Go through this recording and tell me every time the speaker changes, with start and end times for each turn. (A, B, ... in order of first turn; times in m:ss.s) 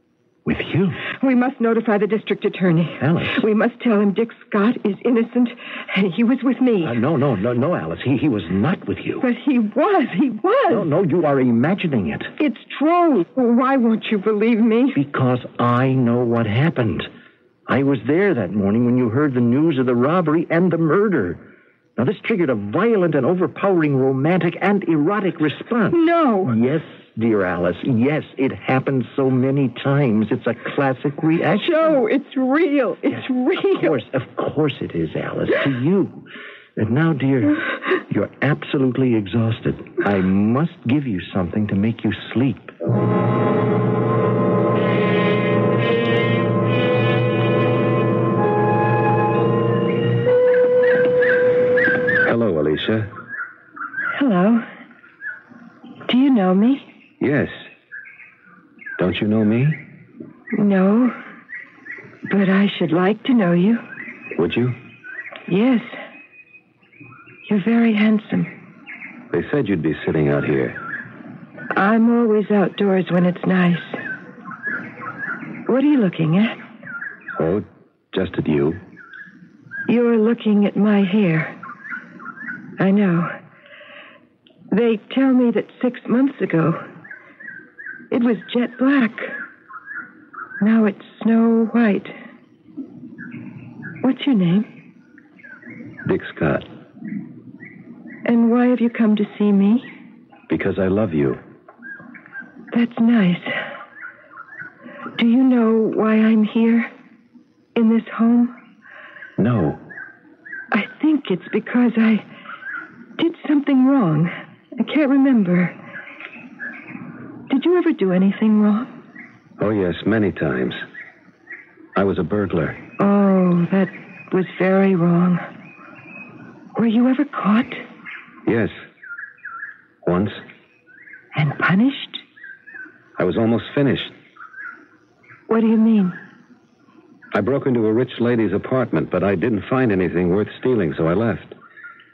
0:00.4-0:01.0 A
0:01.1-0:07.0 B
0:03.0-0:03.4 A
0:06.8-0:09.2 A
0:09.2-0:10.9 B
0:10.7-0:12.3 A
0:12.4-0:15.0 B
0:14.9-0:17.1 A
0:17.7-0:21.4 A
0:22.0-0:32.0 A
0:25.9-0:26.6 B
0:31.6-0:34.0 B
0:33.1-0:36.2 A
0:36.8-0:42.7 A
0:52.2-0:53.1 C
0:54.2-0:54.7 B
0:56.1-0:56.8 B
0:57.2-0:57.5 C
0:59.0-0:59.8 C
1:00.5-1:01.2 B
1:02.3-1:03.8 B
1:04.4-1:04.8 C
1:05.5-1:06.0 B
1:07.4-1:08.5 B
1:09.3-1:10.8 C
1:11.7-1:14.0 B
1:15.7-1:16.6 B
1:17.4-1:18.8 C
1:19.9-1:21.6 B
1:22.8-1:23.4 B
1:24.7-1:26.8 B
1:28.1-1:29.3 B
1:30.6-1:32.1 B
1:34.0-1:34.7 B
1:36.0-1:36.6 C
1:38.2-1:39.9 B
1:40.5-1:41.4 C
1:42.7-1:43.6 B
1:45.2-1:46.9 B
1:47.8-1:48.5 B
1:49.4-1:49.8 C
1:50.7-1:52.2 B
1:53.2-1:55.7 B
1:57.5-1:58.9 B
1:59.6-2:00.8 C
2:02.0-2:02.8 C
2:03.0-2:05.4 B
2:06.8-2:07.8 B
2:08.4-2:08.7 C
2:10.0-2:10.4 C
2:11.3-2:12.2 B
2:13.2-2:14.1 C
2:15.5-2:16.2 B
2:17.3-2:21.5 C